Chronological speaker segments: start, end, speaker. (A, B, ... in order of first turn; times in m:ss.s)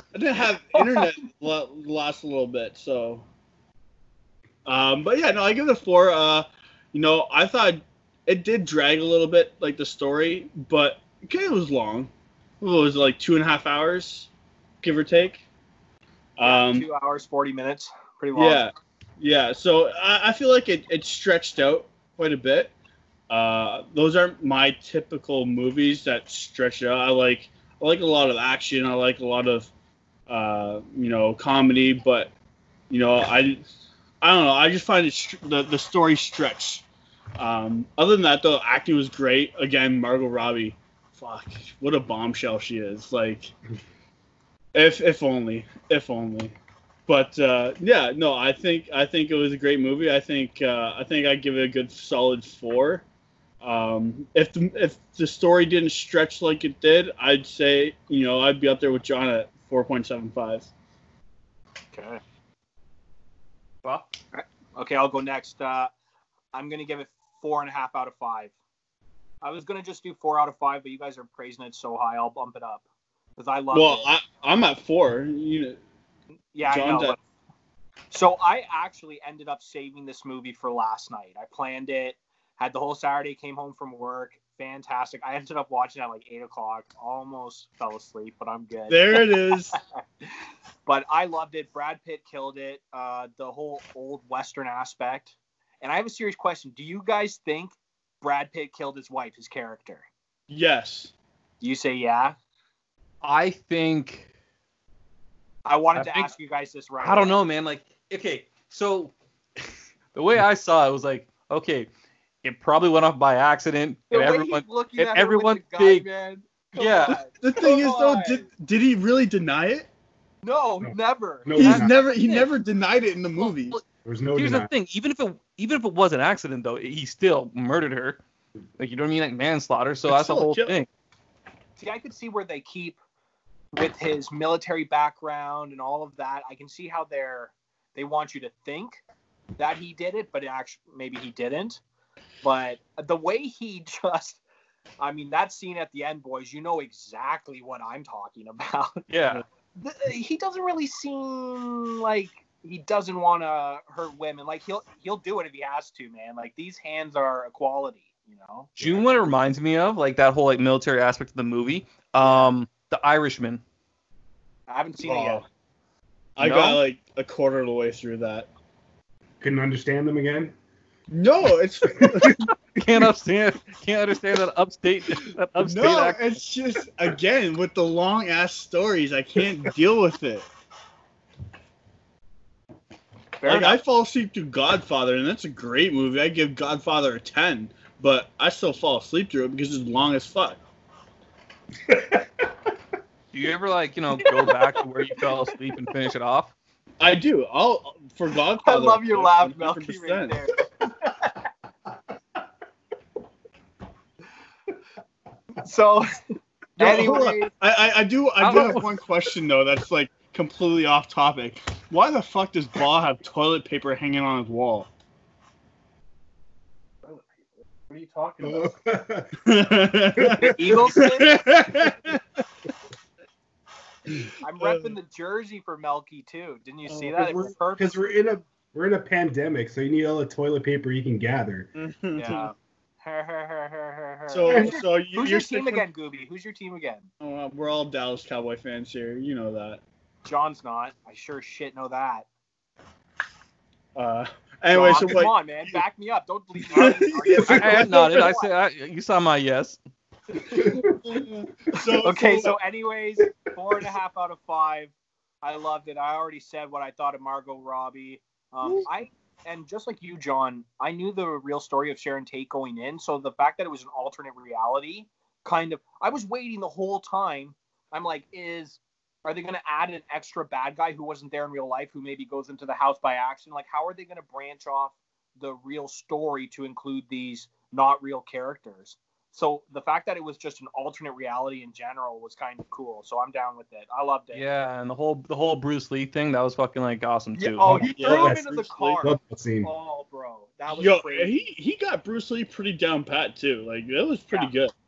0:00.1-0:03.2 A
0:04.6-0:14.3 A
0:14.8-0:15.4 A
0:16.4-0:16.9 A
0:16.4-0:18.6 B
0:18.3-0:22.7 A
0:23.3-0:29.7 A
0:30.3-0:32.3 A
0:32.9-0:33.6 A
0:34.2-0:36.8 A
0:37.4-0:43.5 A
0:44.7-0:46.5 A
0:47.1-0:53.0 A
0:53.6-1:00.7 A
1:01.9-1:02.2 B
1:04.3-1:05.9 B
1:06.5-1:08.5 B
1:09.4-1:12.8 B
1:13.4-1:14.1 B
1:13.7-1:15.8 A
1:16.5-1:17.2 B
1:16.7-1:17.2 A
1:18.1-1:29.8 B
1:28.9-1:29.8 A
1:30.8-1:40.0 B
1:40.5-1:41.1 A
1:41.6-1:42.4 B
1:43.2-1:44.3 C
1:45.6-1:47.4 B
1:46.0-1:46.3 C
1:47.0-1:49.1 C
1:50.1-1:51.9 C
1:52.4-1:56.0 C
1:54.1-1:58.5 B
1:56.8-1:57.2 C
1:57.4-1:59.9 A
2:00.4-2:02.4 B
2:00.8-2:01.9 D
2:01.6-2:03.8 A
2:03.4-2:03.8 C
2:04.0-2:04.7 D
2:04.3-2:08.2 C
2:08.8-2:10.9 C
2:10.1-2:10.7 A
2:11.8-2:13.0 B
2:13.7-2:19.0 B
2:19.6-2:21.8 B
2:22.4-2:24.4 B
2:25.0-2:29.1 B
2:29.1-2:29.4 C
2:29.8-2:39.1 B
2:38.8-2:43.6 C
2:42.2-2:42.5 B
2:44.7-2:45.4 B
2:45.0-2:45.4 A
2:46.4-2:48.5 A
2:46.4-2:46.8 C
2:49.4-2:50.5 D
2:51.1-2:52.5 A
2:51.9-2:52.4 D
2:52.8-2:56.4 C
2:55.6-3:00.5 A
3:03.4-3:03.8 B
3:03.4-3:10.6 A
3:11.9-3:12.2 D
3:13.3-3:16.5 C
3:17.0-3:20.4 A
3:18.6-3:20.6 B
3:25.6-3:26.1 B
3:26.8-3:34.9 A
3:26.8-3:27.5 B
3:28.4-3:29.0 C
3:37.9-3:38.7 B
3:38.4-3:39.3 D
3:39.4-3:42.2 A
3:40.2-3:41.0 D
3:40.3-3:41.4 B
3:44.1-3:44.9 A
3:44.4-3:48.0 B
3:46.9-3:47.2 A
3:47.2-3:51.7 D
3:51.7-3:52.5 A
3:52.2-3:57.1 B
3:54.3-3:55.8 A
3:54.5-3:54.8 D
3:57.2-3:59.8 A
4:00.2-4:02.2 B
4:03.9-4:05.8 A
4:04.7-4:08.5 B
4:06.7-4:08.3 A
4:07.4-4:09.8 C
4:10.5-4:12.6 A
4:10.5-4:11.0 D
4:12.0-4:44.4 B
4:44.3-4:47.8 C
4:47.4-4:51.5 B
4:47.6-4:49.7 D
4:47.9-4:49.0 A
4:50.7-4:54.7 A